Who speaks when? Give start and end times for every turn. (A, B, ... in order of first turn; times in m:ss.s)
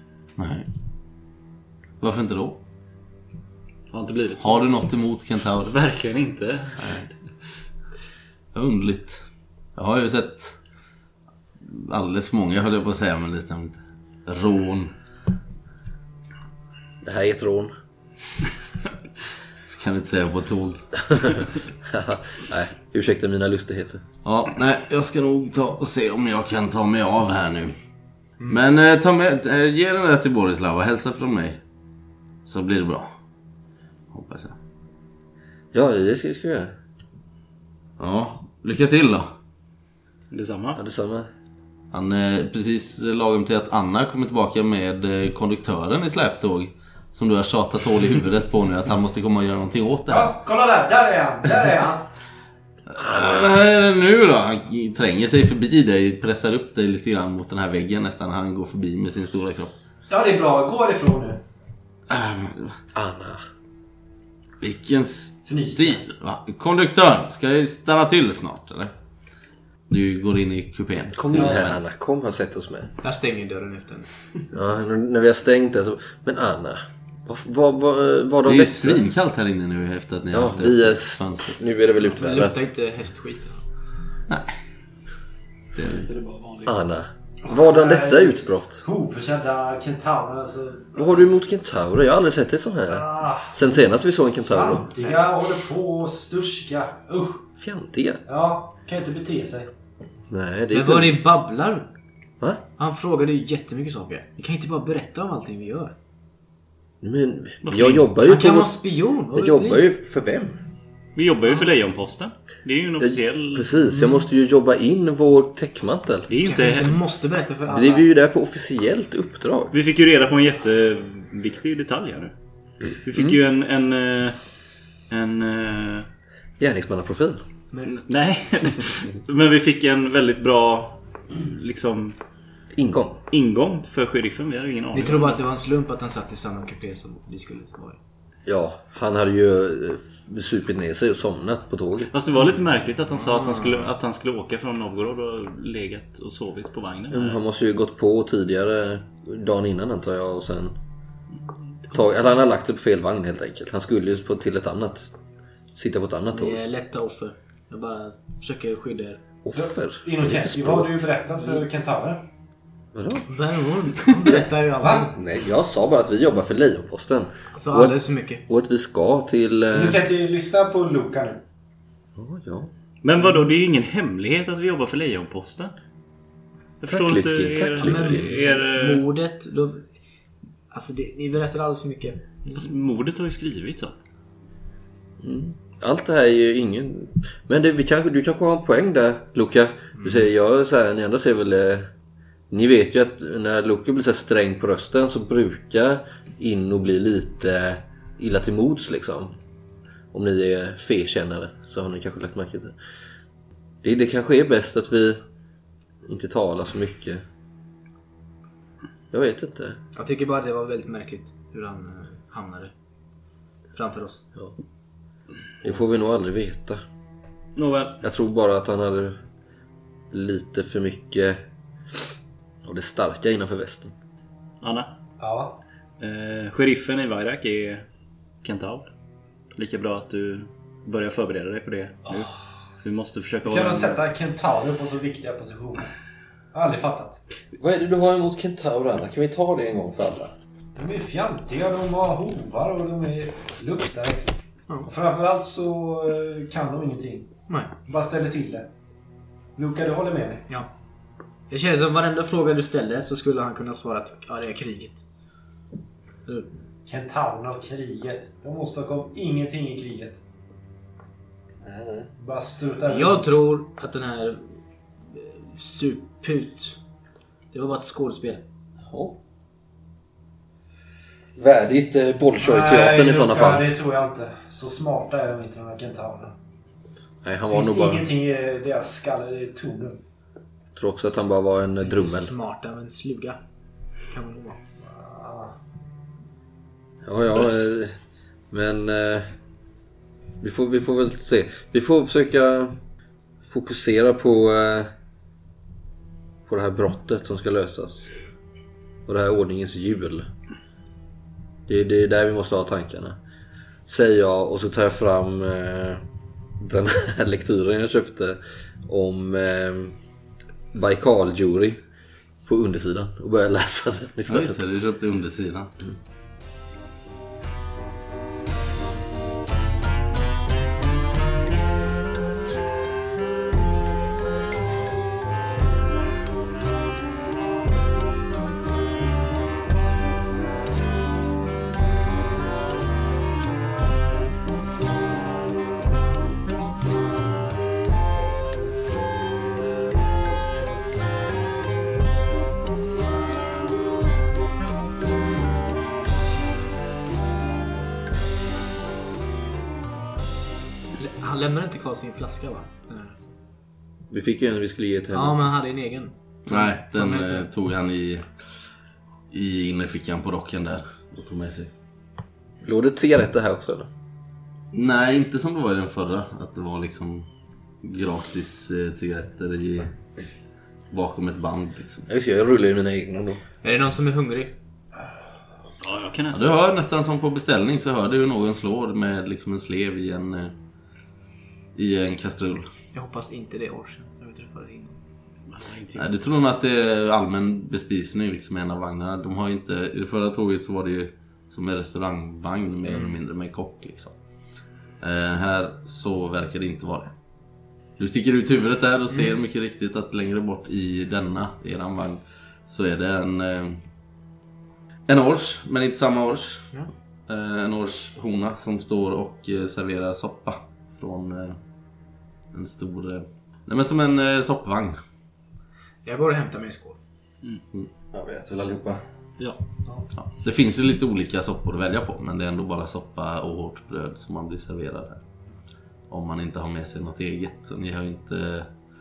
0:00.4-0:00.7 A
0:02.0-0:02.6 A
0:03.9-0:04.8 B
0:04.4-0:05.7 A
0:05.6-0:07.1 B
0:06.8-0:07.1 A
0:08.5-0:09.2 A
0:09.8-0:10.6 A
0:11.6-0:14.9 A
0:17.0-0:17.7 C
0:19.7-0:21.4 A
0:21.9-0:24.0 C
0:24.2-0:27.8 A
0:28.5-0:31.6 A
0:32.4-0:33.1 A
0:34.1-0:34.6 A
0:35.7-0:36.7 C
0:38.0-0:39.3 A
0:40.3-0:40.8 B
0:40.8-0:41.3 C
0:41.9-0:50.4 A
0:50.1-0:52.1 D
0:52.9-0:59.7 A
0:53.0-0:53.4 C
1:00.1-1:01.4 D
1:02.1-1:02.8 A
1:03.0-1:03.4 C
1:04.6-1:08.9 A
1:05.5-1:06.0 D
1:09.9-1:11.8 A
1:11.2-1:12.9 C
1:13.0-1:14.1 E
1:14.5-1:19.0 C
1:18.4-1:21.6 A
1:20.3-1:22.6 C
1:22.1-1:23.6 E
1:24.3-1:24.6 A
1:25.8-1:26.0 A
1:25.8-1:26.8 B
1:26.6-1:28.8 C
1:27.4-1:31.0 D
1:31.0-1:34.9 C
1:32.9-1:33.8 D
1:34.4-1:37.4 D
1:37.6-1:38.2 C
1:38.3-1:39.7 D
1:40.3-1:41.2 C
1:40.7-1:41.9 E
1:42.8-1:46.0 E
1:47.0-1:48.8 C
1:47.6-1:48.2 B
1:48.2-1:49.8 E
1:49.3-1:50.6 C
1:51.2-1:53.7 B
1:53.0-1:56.3 C
1:56.3-1:57.0 B
1:56.4-1:58.1 E
1:57.7-1:59.7 C
1:59.7-2:02.3 B
2:03.0-2:04.4 B
2:05.1-2:06.1 B
2:06.6-2:07.4 C
2:07.7-2:08.0 E
2:07.9-2:12.2 B
2:12.8-2:13.2 C
2:13.3-2:15.4 B
2:14.9-2:18.0 E
2:18.5-2:22.1 C
2:22.1-2:27.4 B
2:23.4-2:23.8 E
2:27.1-2:30.8 C
2:31.9-2:35.1 C
2:35.8-2:36.6 C
2:36.3-2:39.2 E
2:39.4-2:41.1 C
2:39.5-2:42.2 D
2:41.4-2:41.6 E
2:42.9-2:43.3 C
2:43.3-2:45.2 E
2:44.2-2:44.5 C
2:45.1-2:50.0 C
2:47.6-2:48.4 E
2:49.7-2:51.4 D
2:52.2-2:52.7 C
2:53.0-2:55.7 B
2:56.8-2:59.0 B
2:56.9-2:58.3 C
2:57.8-2:59.9 E
3:00.7-3:02.7 E
3:02.5-3:04.0 B
3:05.2-3:11.9 C
3:12.5-3:19.3 C
3:20.1-3:22.8 C
3:23.8-3:25.2 C
3:26.0-3:27.2 C
3:29.1-3:29.8 C
3:30.0-3:32.7 E
3:33.7-3:34.3 E
3:35.6-3:36.8 C
3:37.6-3:38.0 B
3:38.0-3:39.2 C
3:40.1-3:41.4 C
3:42.6-3:43.9 C
3:44.6-3:44.9 B
3:45.2-3:45.6 D
3:46.0-3:47.8 B
3:48.4-3:48.9 B
3:49.5-3:54.0 B
3:53.4-3:55.9 D
3:56.5-3:57.2 D
3:57.6-4:00.3 C
4:00.8-4:08.7 D
4:07.5-4:07.8 E
4:09.6-4:10.5 D
4:11.5-4:15.0 E
4:16.9-4:20.2 D
4:21.6-4:22.1 C
4:22.2-4:23.4 D
4:22.8-4:24.4 E
4:25.1-4:26.8 E
4:27.5-4:28.4 E
4:28.9-4:29.2 C
4:31.4-4:33.7 C
4:32.4-4:36.3 D
4:37.2-4:38.1 C
4:37.5-4:40.0 D
4:40.8-4:42.3 C
4:41.8-4:43.4 E
4:44.1-4:44.6 E
4:44.8-4:45.6 D
4:47.0-4:48.0 C
4:48.5-4:49.3 C
4:50.4-4:52.7 C
4:53.4-4:54.9 C
4:56.5-4:58.1 C
4:59.1-5:00.3 C
5:01.7-5:03.2 C
5:03.9-5:06.0 C
5:06.6-5:10.0 C
5:10.7-5:11.8 C
5:12.5-5:14.6 C
5:14.3-5:15.7 A
5:51.0-5:53.2 E
5:54.1-5:55.4 C
5:55.1-5:57.5 E
5:56.5-5:58.3 A
5:59.3-6:01.7 A
6:02.6-6:03.9 C
6:04.7-6:07.3 A
6:07.8-6:10.0 A
6:10.9-6:12.1 A
6:12.1-6:13.4 C
6:13.6-6:14.6 E
6:15.8-6:16.6 B
6:16.3-6:20.5 A
6:21.8-6:22.7 A
6:22.9-6:25.0 E
6:25.5-6:26.1 B
6:26.0-6:34.1 A
6:35.0-6:37.1 A
6:38.0-6:43.8 A
6:45.1-6:46.7 A
6:47.3-6:51.6 A
6:52.5-6:55.0 A
6:56.0-6:57.0 E
6:58.1-6:59.0 C
7:00.2-7:05.2 A
7:06.1-7:08.7 A